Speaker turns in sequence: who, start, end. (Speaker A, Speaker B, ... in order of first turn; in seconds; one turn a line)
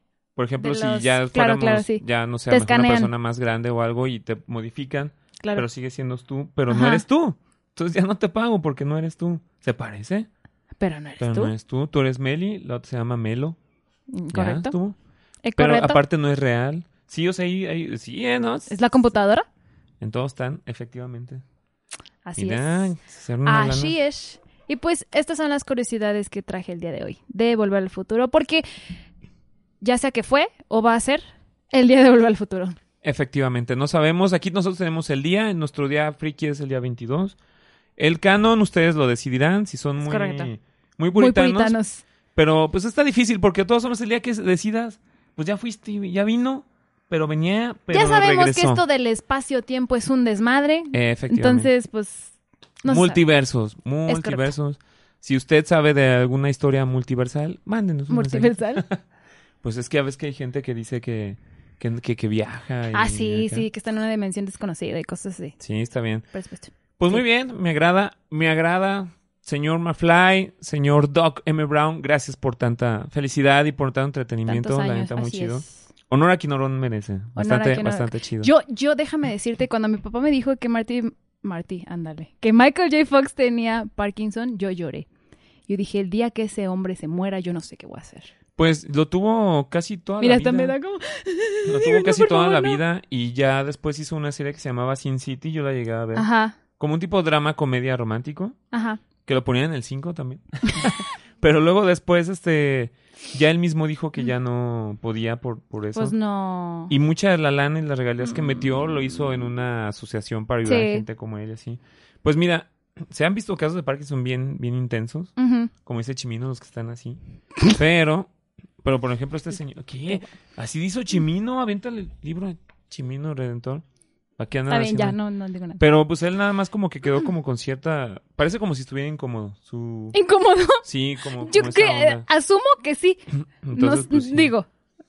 Speaker A: 0.3-10.3
Speaker B: 0.6-3.1
Speaker B: 5.4-5.7
Speaker B: 6.7-7.0
Speaker B: 10.8-11.5
Speaker A: 11.2-13.6
Speaker B: 14.1-14.7
Speaker A: 14.3-14.9
Speaker B: 15.4-16.0
Speaker A: 15.6-18.8
Speaker B: 18.7-19.4
Speaker A: 20.0-21.4
Speaker B: 22.2-22.9
Speaker A: 22.4-23.9
Speaker B: 23.4-28.6
Speaker B: 29.8-32.8
Speaker A: 33.0-37.4
Speaker A: 38.0-41.8
Speaker B: 40.0-40.5
Speaker B: 41.1-42.0
Speaker A: 42.3-48.8
Speaker B: 47.9-53.2
Speaker A: 50.9-51.7
Speaker A: 52.9-59.0
Speaker B: 54.1-54.5
Speaker B: 58.1-58.8
Speaker A: 59.6-63.6
Speaker B: 62.9-65.6
Speaker A: 65.6-66.3
Speaker B: 66.3-67.2
Speaker A: 67.0-78.5
Speaker B: 74.5-75.8
Speaker B: 77.3-85.1
Speaker B: 85.7-88.3
Speaker A: 88.6-90.8
Speaker B: 90.2-92.8
Speaker A: 91.6-98.6
Speaker B: 96.1-96.6
Speaker B: 98.7-99.0
Speaker A: 99.2-106.1
Speaker B: 105.9-106.9
Speaker A: 106.9-118.3
Speaker B: 110.6-111.0
Speaker B: 115.4-115.7
Speaker A: 118.8-123.8
Speaker A: 124.4-125.2
Speaker B: 124.7-125.8
Speaker A: 125.8-130.2
Speaker B: 130.1-133.2
Speaker A: 130.8-132.2
Speaker A: 133.6-134.5
Speaker B: 133.7-134.7